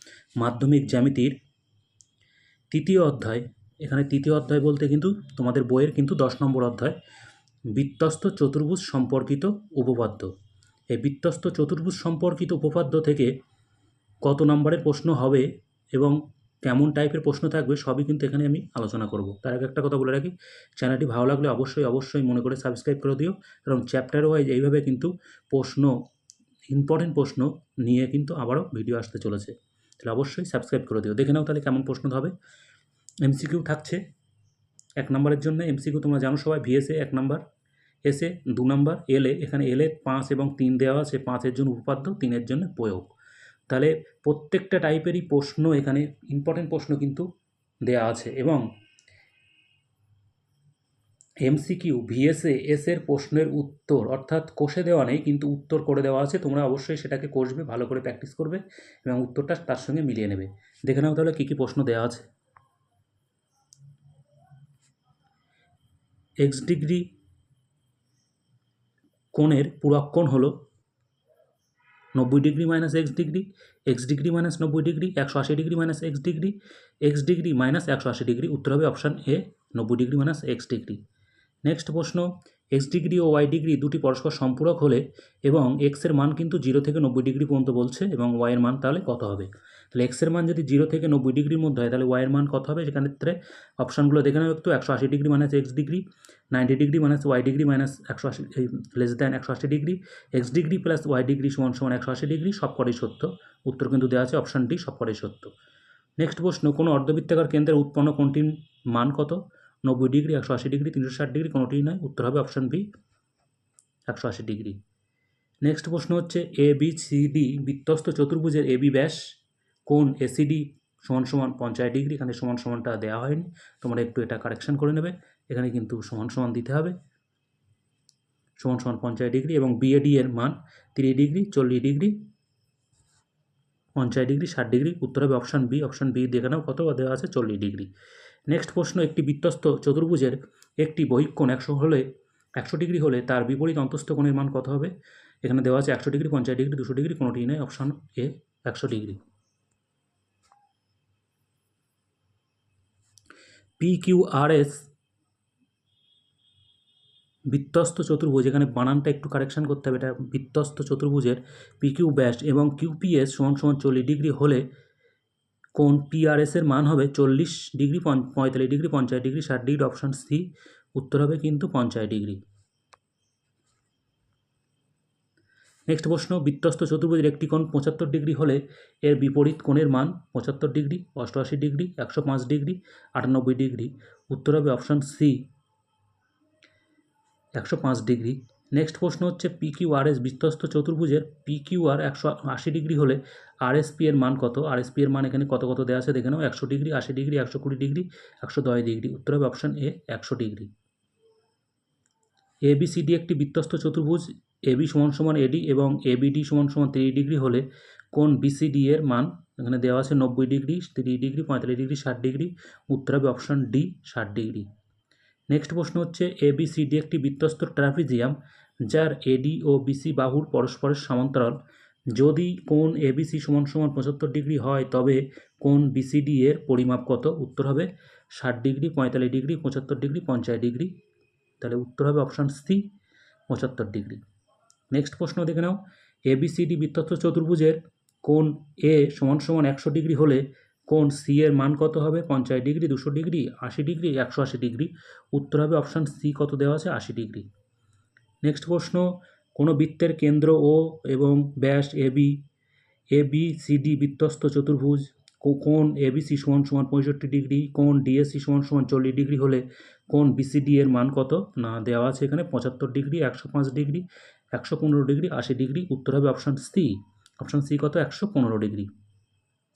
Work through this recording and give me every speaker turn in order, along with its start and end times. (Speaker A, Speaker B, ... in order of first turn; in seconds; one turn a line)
Speaker A: 0.4-1.3
Speaker A: 2.7-7.0
Speaker A: 7.7-10.3
Speaker A: 10.9-13.3
Speaker A: 14.2-25.9
Speaker A: 26.7-32.3
Speaker A: 33.2-34.0
Speaker A: 35.0-37.4
Speaker A: 38.1-43.1
Speaker A: 43.7-47.3
Speaker A: 47.9-48.6
Speaker A: 51.4-62.2
Speaker A: 66.4-67.0
Speaker A: 69.3-70.5
Speaker A: 72.1-81.0
Speaker A: 81.6-105.5
Speaker A: 106.2-112.8
Speaker A: 114.1-114.8
Speaker A: 115.6-119.2
Speaker A: 119.9-126.9
Speaker A: 128.6-132.1
Speaker A: 134.0-137.9
Speaker A: 138.5-142.0
Speaker A: 142.6-144.9
Speaker A: 145.4-149.2
Speaker A: 153.8-154.9
Speaker A: 157.5-164.6
Speaker A: 165.8-172.4
Speaker A: 175.9-185.4
Speaker A: 187.6-200.7
Speaker A: 202.7-214.7
Speaker A: 215.5-221.5
Speaker A: 222.1-231.0
Speaker A: 231.6-232.8
Speaker A: 233.5-234.2
Speaker A: 234.9-247.5
Speaker A: 248.4-252.4
Speaker A: 253.1-268.9